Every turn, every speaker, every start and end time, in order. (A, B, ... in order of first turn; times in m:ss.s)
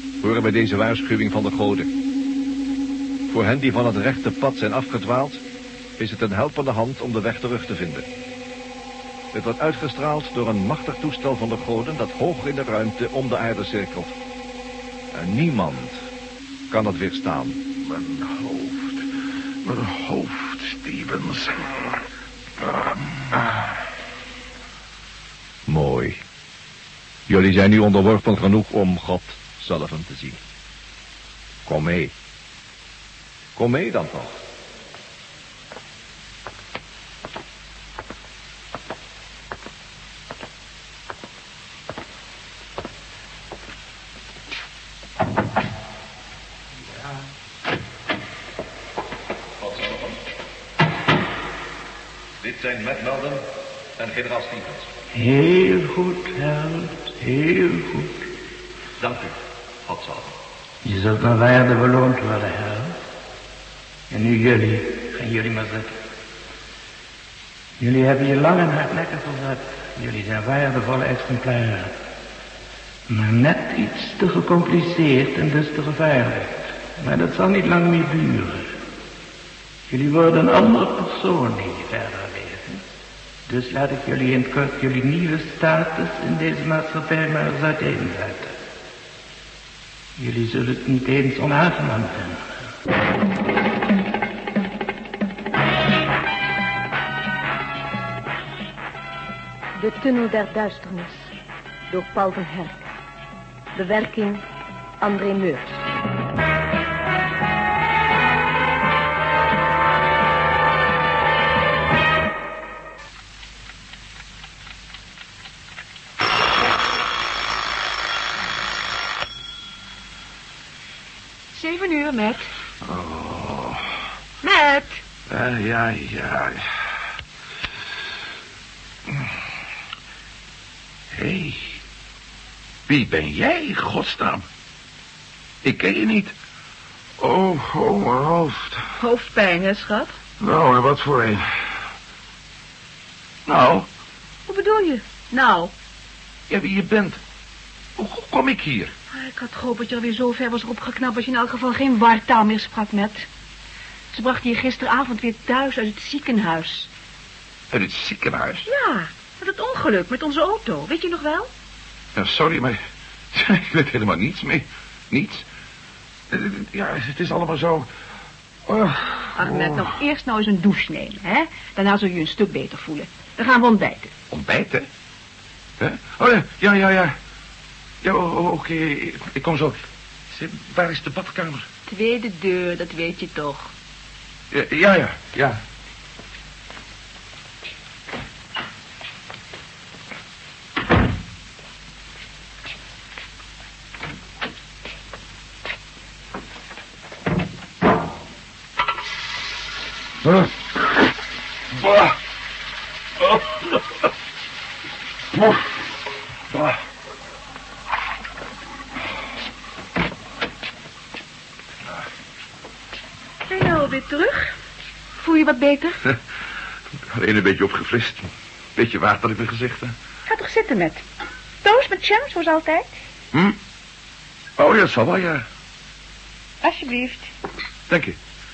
0:00.2-0:01.9 A
0:03.3-0:05.4 A
0:06.0-0:08.0 A
0:09.3-0:14.1 A
0:15.1-0:16.0 A
0:16.7-0:17.6 A
0:17.8-0:19.0 B
0:19.6-0:22.0 B
0:22.6-0:23.6 B
0:25.7-0:26.2 A
0:27.3-0:30.4 A
0:31.6-0:32.1 A
0:33.6-0:34.4 A
0:46.9-0:47.2 C
0:49.6-0:50.2 A
0:52.4-0:53.4 A
0:54.0-0:54.9 A
0:55.1-0:58.3 C
0:59.0-1:00.3 A
1:00.8-1:03.0 C
1:04.1-1:06.0 C
1:07.8-1:11.9 C
1:13.1-1:18.8 C
1:19.9-1:22.8 C
1:23.5-1:28.6 C
1:30.2-1:32.5 C
1:39.8-1:41.3 D
1:41.9-1:42.9 D
1:43.7-1:44.4 D
1:45.0-1:45.8 D
2:01.5-2:02.5 E
2:02.8-2:04.0 B
2:04.4-2:05.0 E
2:05.3-2:06.8 B
2:11.1-2:11.8 B
2:12.9-2:14.4 B
2:15.6-2:16.3 B
2:17.2-2:18.8 B
2:19.0-2:20.2 E
2:20.4-2:21.8 B
2:23.4-2:23.9 B
2:24.5-2:25.7 E
2:26.5-2:27.2 B
2:28.0-2:28.9 B
2:29.1-2:33.3 E
2:34.1-2:36.9 E
2:37.7-2:38.7 B
2:38.6-2:41.5 E
2:42.1-2:42.8 B
2:43.3-2:45.5 B
2:46.3-2:47.9 B
2:48.6-2:49.9 B
2:49.3-2:54.1 E
2:54.3-2:54.9 B
2:55.8-2:57.2 B
2:58.0-3:01.7 B
3:01.9-3:03.7 E
3:04.5-3:05.6 B
3:20.2-3:20.6 B
3:21.7-3:22.2 B
3:23.2-3:23.7 B
3:33.5-3:34.5 E
3:35.2-3:36.0 E
3:36.9-3:40.0 B
3:40.3-3:41.0 E
3:41.6-3:43.0 E
3:43.3-3:43.6 B
3:44.6-3:45.4 B
3:46.6-3:47.3 E
3:47.9-3:48.2 B